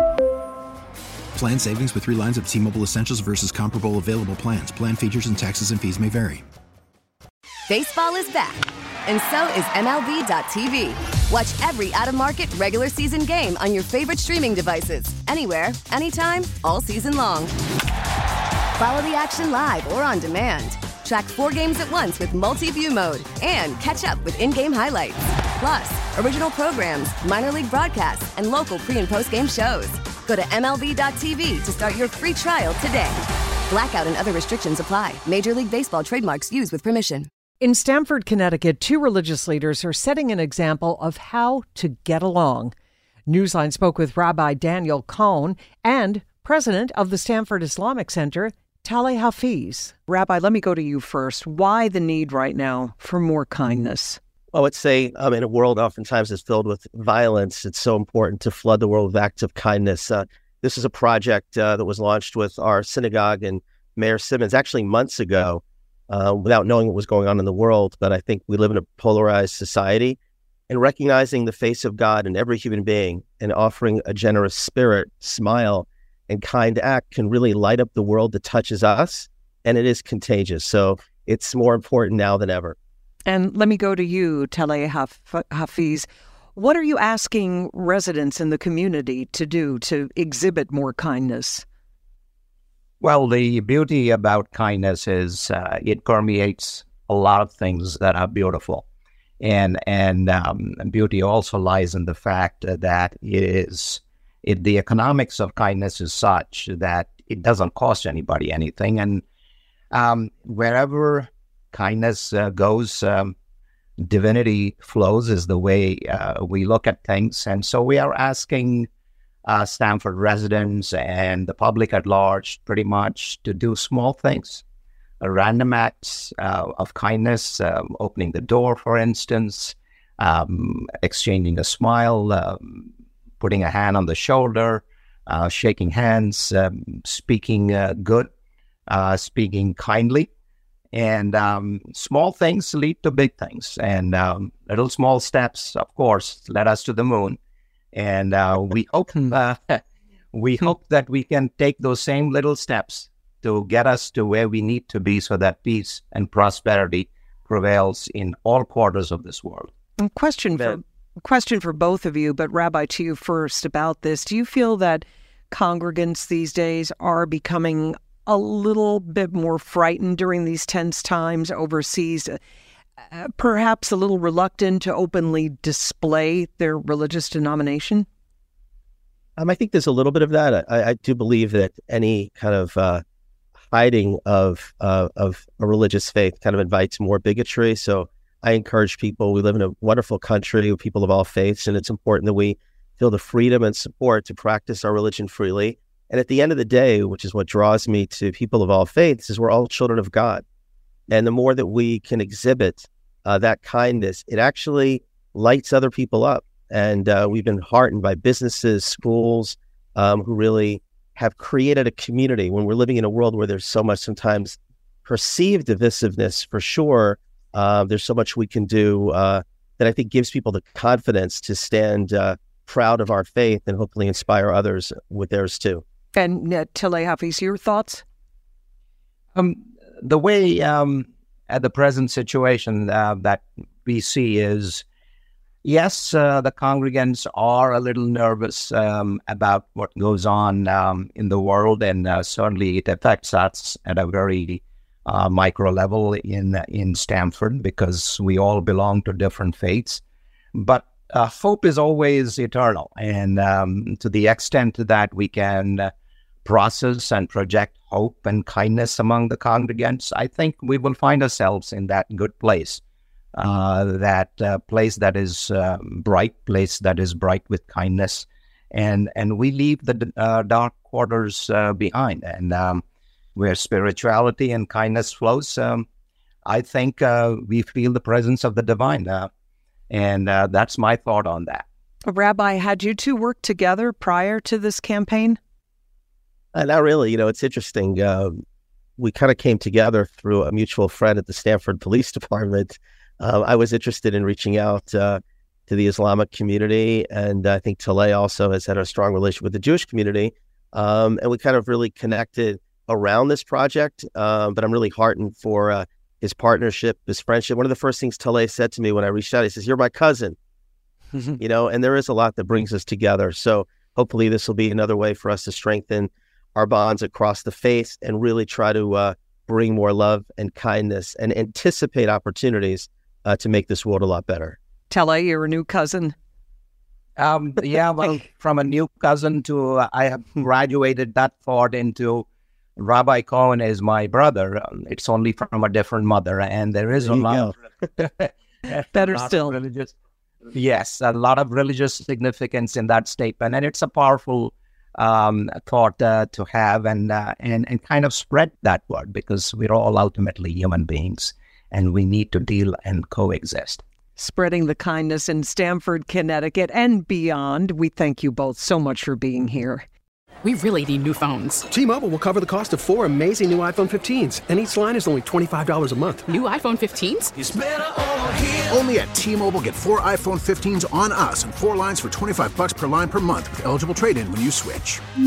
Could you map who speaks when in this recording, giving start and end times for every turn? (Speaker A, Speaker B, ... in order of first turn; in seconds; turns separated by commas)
Speaker A: 1.4-6.4, Speaker B: 7.7-17.5, Speaker B: 18.8-37.3, Speaker C: 37.6-42.7, Speaker C: 43.3-54.2, Speaker D: 54.5-70.2, Speaker D: 70.7-82.8, Speaker C: 83.3-91.7, Speaker E: 93.0-98.9, Speaker E: 99.4-109.2, Speaker E: 109.9-113.3, Speaker E: 114.0-118.9, Speaker E: 119.5-124.6, Speaker E: 125.2-138.3, Speaker E: 138.9-140.3, Speaker E: 140.9-147.4, Speaker E: 147.9-159.7, Speaker C: 160.0-172.4, Speaker C: 173.1-178.1, Speaker D: 179.4-183.0, Speaker D: 183.7-200.4, Speaker D: 201.1-225.8, Speaker C: 226.1-228.0, Speaker E: 229.3-234.8, Speaker E: 235.6-250.0, Speaker E: 250.5-255.9, Speaker E: 256.4-262.8, Speaker E: 263.3-272.8, Speaker E: 273.4-275.9, Speaker E: 276.4-279.3, Speaker E: 279.9-281.7, Speaker C: 282.0-285.4, Speaker D: 286.5-288.4, Speaker D: 289.0-310.4, Speaker D: 311.2-324.6, Speaker C: 324.9-326.1, Speaker E: 327.2-339.9, Speaker C: 338.9-339.6, Speaker E: 340.5-353.8, Speaker C: 354.2-359.9, Speaker F: 360.4-361.7, Speaker G: 361.7-366.3, Speaker F: 366.3-367.3, Speaker H: 368.7-375.0